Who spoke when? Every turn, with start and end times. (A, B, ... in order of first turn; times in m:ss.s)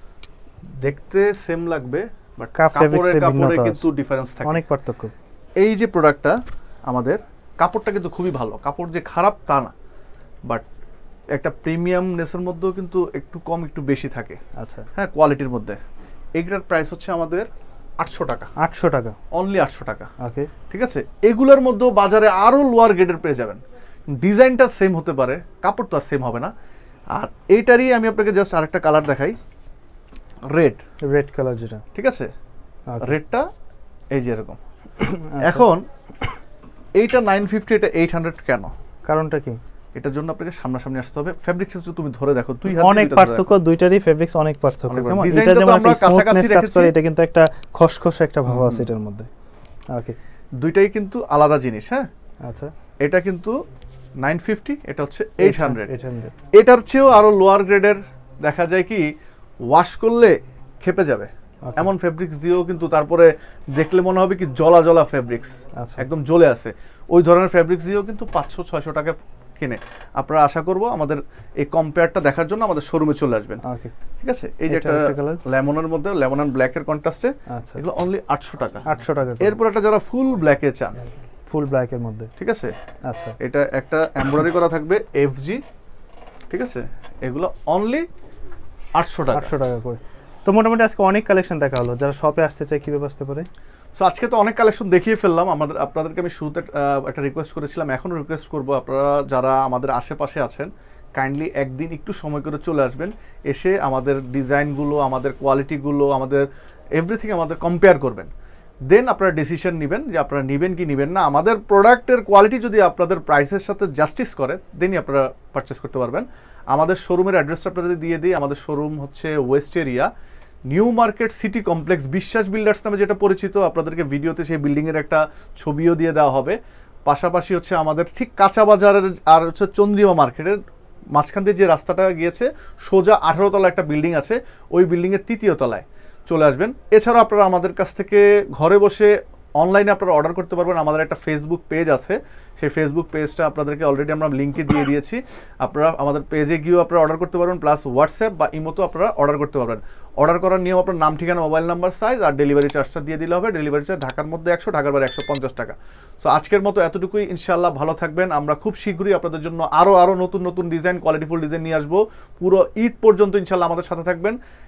0:00.8-0:04.6 A
0:02.6-0:03.8 B
0:04.4-0:05.1 B
0:05.6-0:09.7 A
0:11.3-0:14.4 A
0:14.6-0:14.9 B
0:14.9-0:15.8 A
0:16.4-0:17.5 A
0:18.0-0:18.5 A
0:18.6-0:19.2 B
0:19.3-0:20.1 A
0:20.2-0:20.5 B
0:20.7-0:23.6 A
0:24.1-0:26.5 A
0:27.1-0:29.4 A
0:30.5-0:30.8 A
0:31.1-0:31.8 B
0:31.9-0:32.3 A
0:32.9-0:33.1 B
0:33.0-0:33.5 A
0:34.1-0:34.6 A
0:35.0-0:35.6 B
0:35.4-0:35.8 A
0:37.0-0:38.7 A
0:39.1-0:39.6 B
0:40.0-0:43.4 A
0:42.7-0:49.3 B
0:44.9-0:46.9 A
0:48.4-0:48.9 A
0:50.6-0:52.1 A
0:52.4-0:52.7 B
0:53.0-0:53.6 A
0:54.2-0:55.9 A
0:55.4-0:56.3 B
0:56.5-0:59.1 A
0:59.7-1:13.6 A
1:05.8-1:06.0 B
1:13.6-1:13.9 B
1:14.2-1:18.9 A
1:14.7-1:15.4 B
1:17.5-1:17.8 B
1:18.8-1:19.6 B
1:19.4-1:21.0 A
1:21.5-1:22.3 B
1:22.4-1:22.7 A
1:23.0-1:23.4 B
1:23.4-1:25.6 A
1:26.5-1:28.1 A
1:29.0-1:29.5 A
1:29.3-1:33.5 B
1:34.0-1:48.3 A
1:48.9-2:00.1 A
2:00.7-2:10.6 A
2:11.1-2:44.4 A